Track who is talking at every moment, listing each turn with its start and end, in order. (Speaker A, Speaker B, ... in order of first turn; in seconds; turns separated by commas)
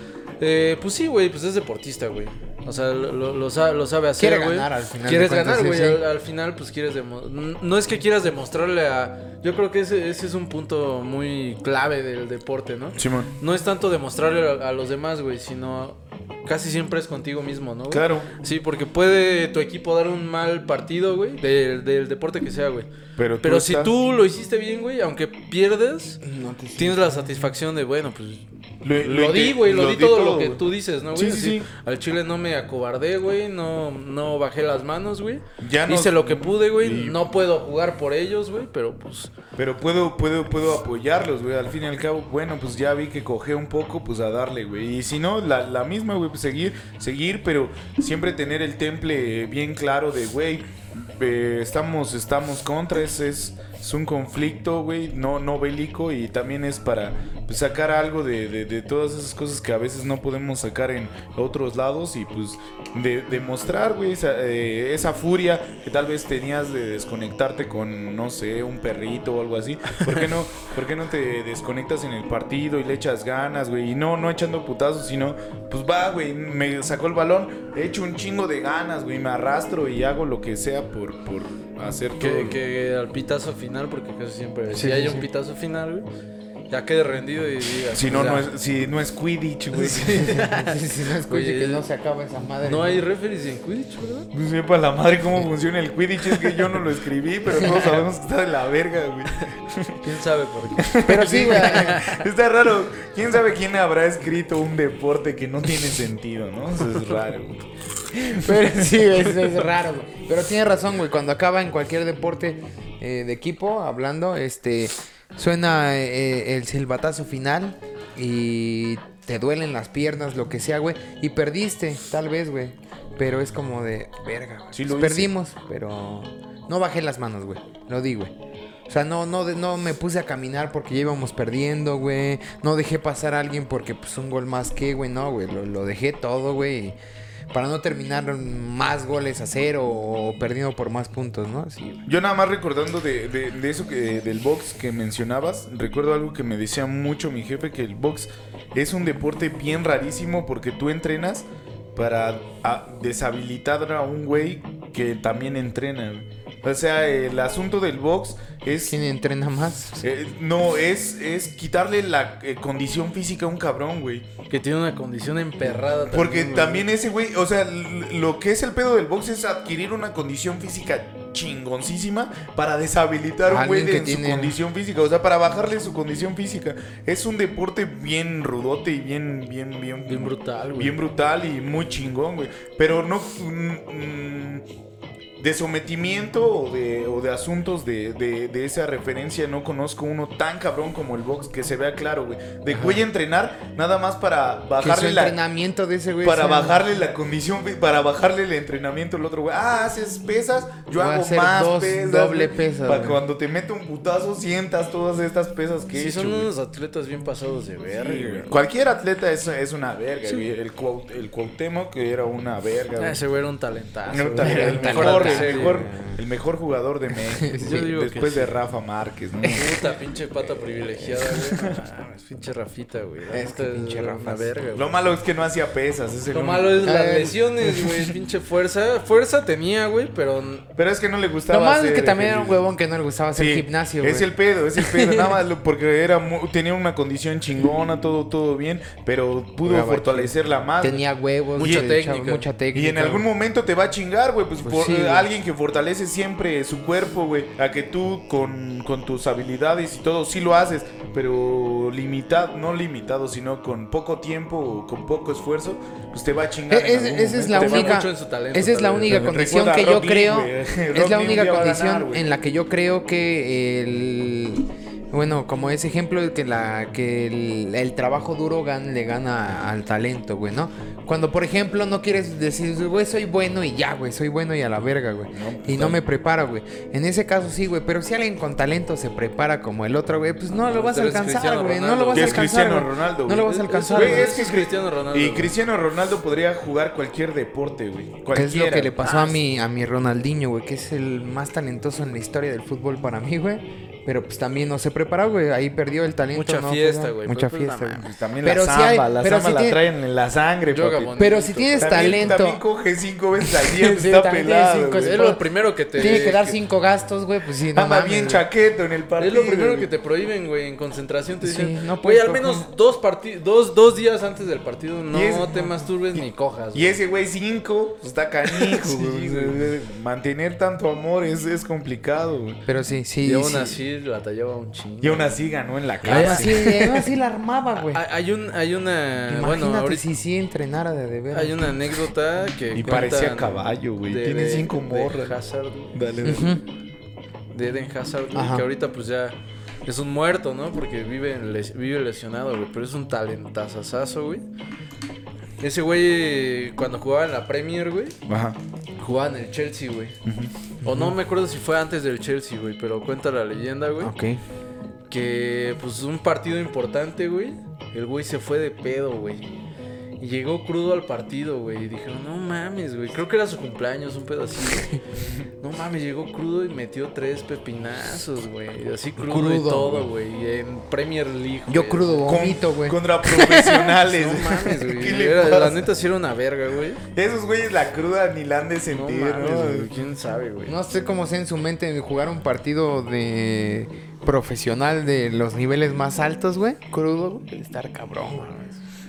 Speaker A: 0.4-22.9, Speaker B: 4.2-6.0, Speaker C: 13.0-13.3, Speaker C: 17.9-18.3, Speaker C: 23.2-23.9, Speaker A: 23.4-26.2, Speaker B: 26.2-27.2, Speaker A: 26.8-28.5, Speaker C: 28.8-31.7, Speaker A: 29.0-39.3, Speaker C: 35.6-37.2, Speaker C: 39.5-82.6, Speaker A: 82.2-86.1, Speaker B: 84.7-85.3, Speaker A: 86.7-88.5, Speaker C: 87.9-90.4, Speaker A: 89.7-91.8, Speaker B: 90.1-93.0, Speaker A: 92.6-94.3, Speaker C: 94.3-100.0, Speaker A: 97.6-98.0, Speaker B: 97.6-97.9, Speaker A: 100.0-102.2, Speaker C: 100.8-107.6, Speaker B: 101.1-102.0, Speaker B: 108.1-128.3, Speaker C: 108.4-108.9, Speaker C: 124.7-125.3, Speaker B: 128.9-136.9, Speaker B: 137.5-142.0, Speaker C: 142.1-159.0, Speaker B: 158.9-160.0, Speaker C: 160.0-164.2, Speaker A: 164.5-166.9, Speaker C: 166.1-184.6, Speaker B: 173.4-174.6, Speaker A: 180.1-181.0, Speaker C: 185.4-195.3, Speaker B: 192.7-193.0, Speaker B: 194.8-196.8, Speaker C: 196.2-206.5, Speaker B: 200.9-203.2, Speaker A: 205.9-208.6, Speaker C: 207.9-213.2, Speaker A: 213.0-215.9, Speaker C: 214.1-219.7, Speaker B: 214.4-216.2, Speaker B: 217.3-217.8, Speaker A: 217.6-218.5, Speaker A: 219.5-224.9, Speaker C: 221.5-221.8, Speaker B: 223.3-224.6, Speaker C: 224.7-226.8, Speaker A: 226.3-230.7, Speaker B: 226.8-228.1, Speaker C: 230.8-232.6, Speaker B: 231.5-235.4, Speaker C: 233.3-241.0, Speaker B: 239.6-243.3, Speaker A: 241.6-242.4, Speaker C: 241.6-241.9, Speaker C: 242.7-258.0, Speaker B: 244.6-245.3, Speaker B: 256.7-284.4, Speaker A: 257.5-259.3, Speaker C: 259.0-262.2, Speaker C: 275.3-276.0, Speaker A: 280.5-282.5, Speaker C: 282.1-289.4, Speaker A: 283.4-285.5, Speaker B: 288.3-299.8, Speaker A: 296.3-298.0, Speaker C: 298.0-301.1, Speaker A: 300.7-302.3, Speaker B: 301.2-302.6, Speaker C: 301.8-305.2, Speaker B: 303.4-305.4, Speaker A: 305.0-306.6, Speaker B: 305.9-308.4, Speaker C: 307.7-309.9, Speaker A: 309.2-316.9, Speaker B: 311.4-312.7, Speaker C: 315.1-315.6, Speaker C: 316.1-322.6, Speaker B: 318.7-319.5, Speaker B: 322.7-323.8, Speaker A: 323.2-325.4, Speaker C: 325.0-327.1, Speaker A: 326.0-326.8, Speaker B: 326.1-328.0, Speaker A: 327.8-330.0, Speaker B: 329.3-331.9, Speaker A: 331.3-336.5, Speaker C: 332.7-335.4, Speaker C: 335.9-336.6, Speaker B: 336.2-336.6, Speaker A: 337.5-344.4, Speaker B: 338.3-338.6, Speaker A: 345.6-348.2, Speaker C: 348.3-348.6, Speaker A: 349.0-350.2, Speaker C: 350.2-350.5, Speaker A: 350.8-354.1, Speaker B: 350.8-351.1, Speaker B: 354.0-354.4, Speaker A: 355.1-359.4, Speaker A: 360.2-364.9, Speaker A: 365.6-372.4, Speaker B: 369.2-370.1, Speaker B: 371.7-374.0, Speaker C: 372.2-375.9, Speaker A: 374.1-377.0, Speaker C: 377.1-379.9, Speaker A: 378.9-380.7, Speaker B: 380.7-388.8